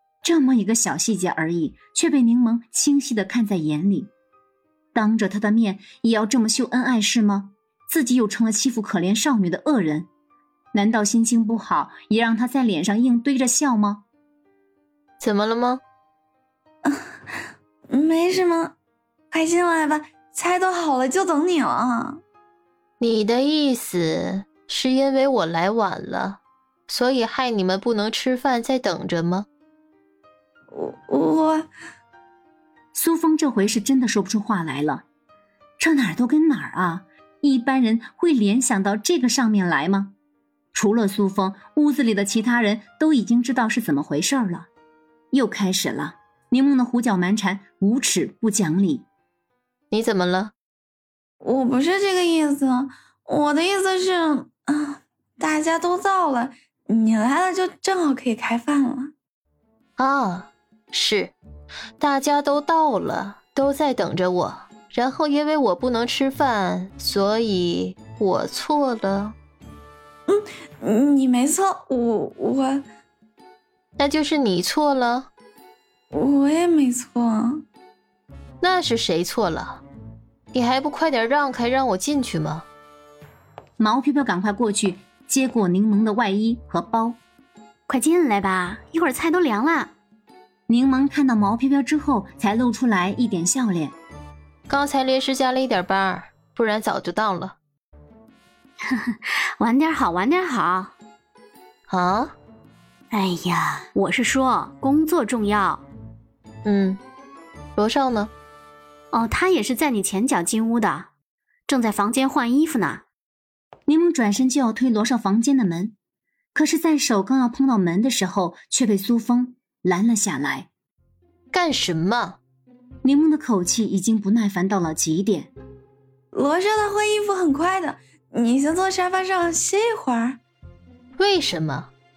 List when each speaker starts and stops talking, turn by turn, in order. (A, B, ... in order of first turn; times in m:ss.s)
0:00.2-0:04.1 A
0:04.9-0:10.1 A
0:10.7-0:14.0 A
0:15.2-0:15.8 B
0:16.8-0:17.4 C
0:17.9-0:18.7 C
0:19.3-0:22.2 C
0:23.0-0:29.4 B
0:30.7-0:31.7 C
0:32.9-0:35.0 A
0:35.8-0:40.1 A
0:40.7-0:44.7 A
0:45.3-0:49.1 A
0:49.9-0:50.5 B
0:51.4-0:59.1 C
1:00.0-1:01.3 B
1:02.0-1:09.3 B
1:10.3-1:12.8 C
1:14.0-1:15.3 B
1:16.1-1:17.6 C
1:18.6-1:19.8 B
1:20.5-1:22.6 B
1:23.8-1:27.2 A
1:27.9-1:29.9 D
1:30.7-1:34.0 A
1:34.7-1:37.6 B
1:38.8-1:40.9 D
1:41.9-1:42.3 B
1:43.1-1:45.8 D
1:46.6-1:47.0 B
1:47.8-1:48.3 B
1:49.1-1:51.1 D
1:51.7-1:53.0 D
1:53.9-1:55.9 A
1:56.5-2:00.7 A
2:01.5-2:02.4 B
2:03.0-2:05.5 A
2:06.3-2:10.4 C
2:11.2-2:11.9 B